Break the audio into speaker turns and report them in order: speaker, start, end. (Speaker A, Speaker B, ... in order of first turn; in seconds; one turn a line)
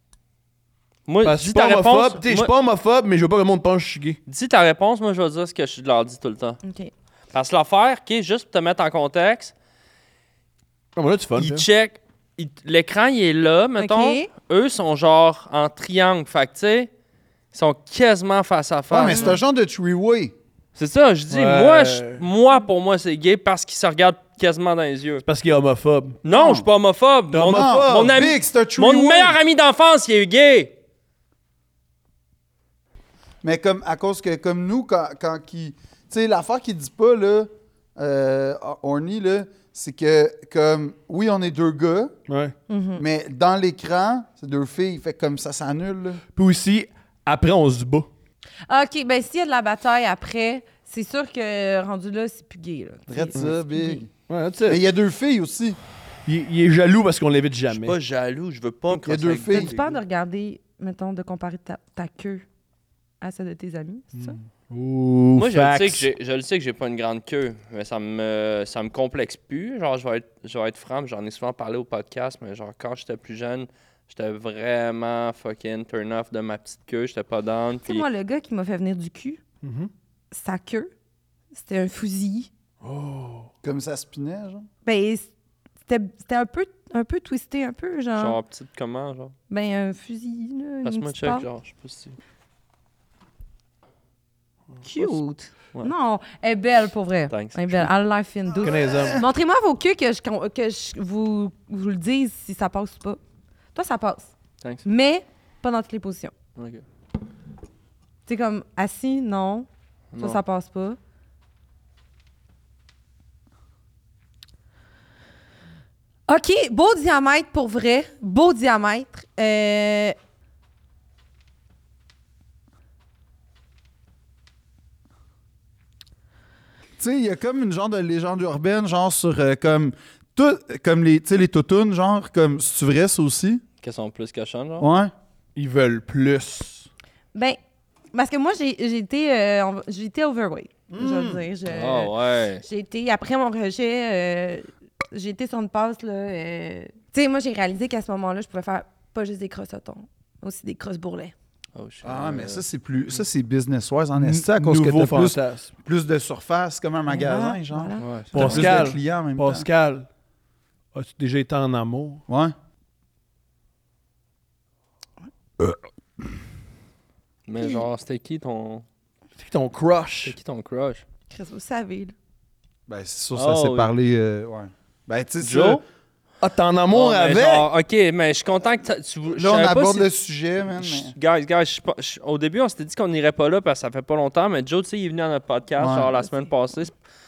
Speaker A: 1.1-2.5
Speaker B: 1.2-4.2
Speaker A: 4.3-6.6
Speaker C: 6.6-6.9
Speaker A: 7.3-9.5
Speaker B: 11.0-11.7
Speaker A: 11.4-16.9
Speaker C: 13.8-14.3
Speaker A: 17.5-19.4
Speaker D: 18.9-20.3
Speaker C: 19.1-19.4
Speaker A: 20.8-25.2
Speaker B: 21.3-22.2
Speaker B: 25.2-26.2
Speaker A: 26.2-30.7
Speaker D: 26.3-26.7
Speaker B: 27.3-28.1
Speaker D: 27.4-29.4
Speaker D: 33.4-42.2
Speaker B: 42.3-42.5
Speaker C: 42.7-43.0
Speaker D: 43.0-46.2
Speaker B: 46.4-48.1
Speaker C: 48.7-54.0
Speaker D: 53.1-54.1
Speaker B: 54.3-54.8
Speaker D: 54.6-55.8
Speaker B: 56.3-58.0
Speaker A: 57.7-60.0
Speaker D: 58.9-59.7
Speaker C: 59.5-62.5
Speaker C: 63.2-64.4
Speaker B: 64.1-66.1
Speaker A: 65.4-78.1
Speaker C: 77.8-79.4
Speaker B: 79.6-79.9
Speaker C: 80.3-80.9
Speaker C: 81.5-82.5
Speaker B: 82.8-83.5
Speaker D: 83.6-84.7
Speaker C: 84.8-85.3
Speaker C: 85.9-88.4
Speaker A: 88.2-89.3
Speaker C: 89.5-91.5
Speaker A: 90.8-92.2
Speaker C: 94.8-103.2
Speaker A: 97.3-97.9
Speaker B: 98.6-99.2
Speaker D: 98.9-99.2
Speaker C: 103.8-104.3
Speaker C: 104.8-106.3
Speaker A: 106.6-106.8
Speaker C: 108.3-109.7
Speaker A: 110.1-110.4
Speaker C: 110.2-111.0
Speaker C: 116.3-120.2
Speaker D: 127.0-133.6
Speaker A: 133.8-134.9
Speaker D: 134.8-135.1
Speaker B: 135.6-136.9
Speaker C: 138.1-151.3
Speaker B: 140.9-141.4
Speaker A: 141.7-142.6
Speaker A: 151.8-152.6
Speaker D: 152.0-159.7
Speaker B: 154.2-155.7
Speaker C: 157.1-158.6
Speaker A: 158.0-158.8
Speaker B: 158.3-160.1
Speaker B: 160.9-162.2
Speaker D: 162.3-162.5
Speaker A: 167.5-168.8
Speaker B: 169.4-170.4
Speaker A: 170.2-171.0
Speaker C: 171.3-172.1
Speaker D: 172.9-175.8
Speaker A: 173.3-173.9
Speaker A: 175.4-175.8
Speaker B: 176.4-177.7
Speaker A: 176.9-180.1
Speaker D: 179.3-181.1
Speaker A: 180.8-186.9
Speaker D: 185.8-186.1